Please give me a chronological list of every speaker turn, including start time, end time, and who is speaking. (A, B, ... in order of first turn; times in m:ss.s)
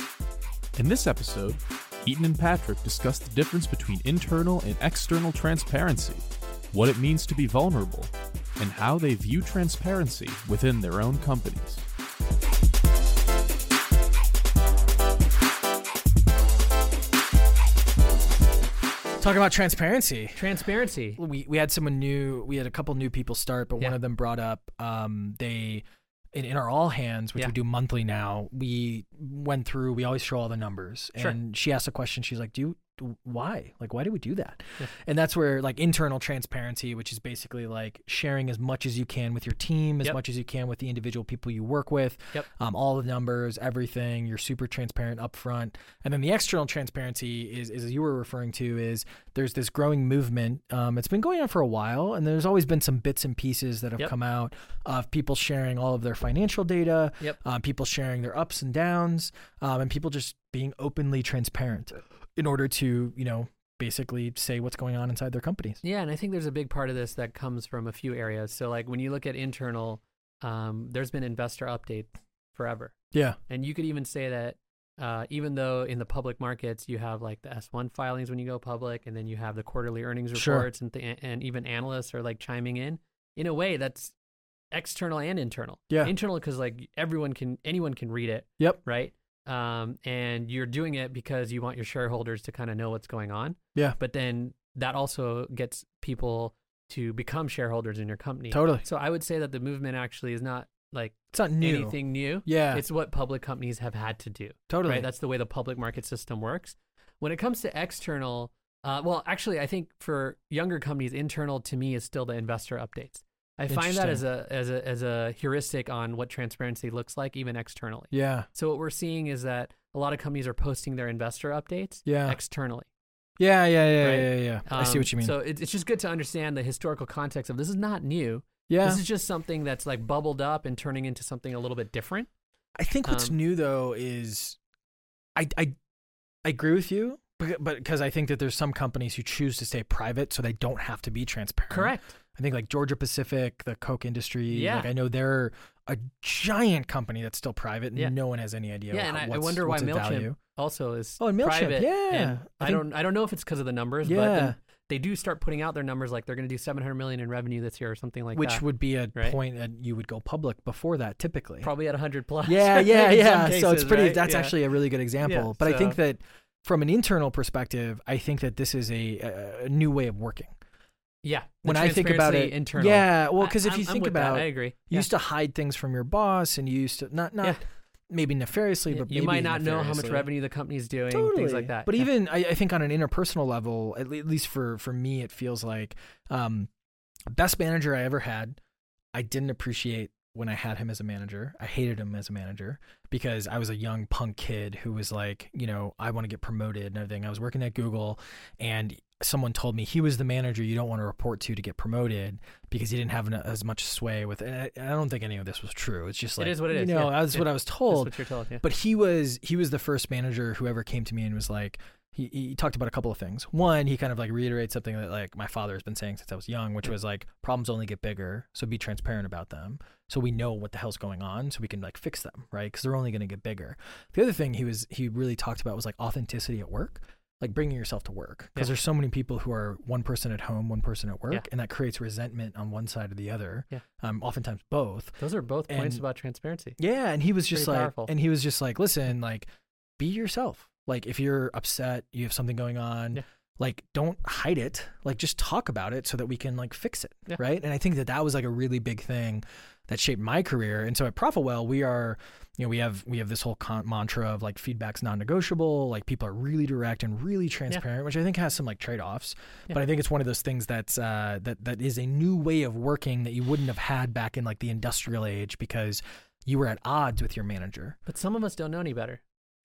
0:00.8-0:11.8 A
0:19.2-0:20.5 B
0:20.4-0:21.2 C
0:21.2-1:05.8 B
1:05.8-1:13.0 C
1:13.1-1:13.4 B
1:13.5-1:24.2 C
1:20.3-1:20.7 B
1:24.7-2:02.9 C
1:38.5-1:38.8 B
1:41.3-1:42.8 B
1:44.7-1:45.1 B
1:53.7-1:54.2 B
1:58.1-1:58.5 B
2:02.1-2:02.4 B
2:03.4-2:05.4 B
2:04.0-2:12.3 C
2:08.7-2:09.0 B
2:12.8-2:14.6 B
2:13.0-2:13.4 C
2:15.4-2:15.8 B
2:16.4-2:30.4 B
2:21.7-2:22.2 C
2:24.5-2:24.9 C
2:28.9-2:39.4 C
2:31.2-2:32.9 B
2:34.0-2:34.6 B
2:38.3-2:41.7 B
2:41.6-2:44.6 C
2:42.4-2:50.5 B
2:45.2-2:46.0 C
2:51.2-2:55.1 C
2:51.6-3:00.3 B
2:58.9-3:02.1 C
3:01.1-3:06.7 B
3:07.3-3:08.6 B
3:09.2-3:56.0 B
3:26.4-3:28.6 C
3:55.2-3:56.8 C
3:56.8-3:59.5 B
3:57.5-3:58.1 C
4:00.0-4:28.0 B
4:28.1-4:29.2 C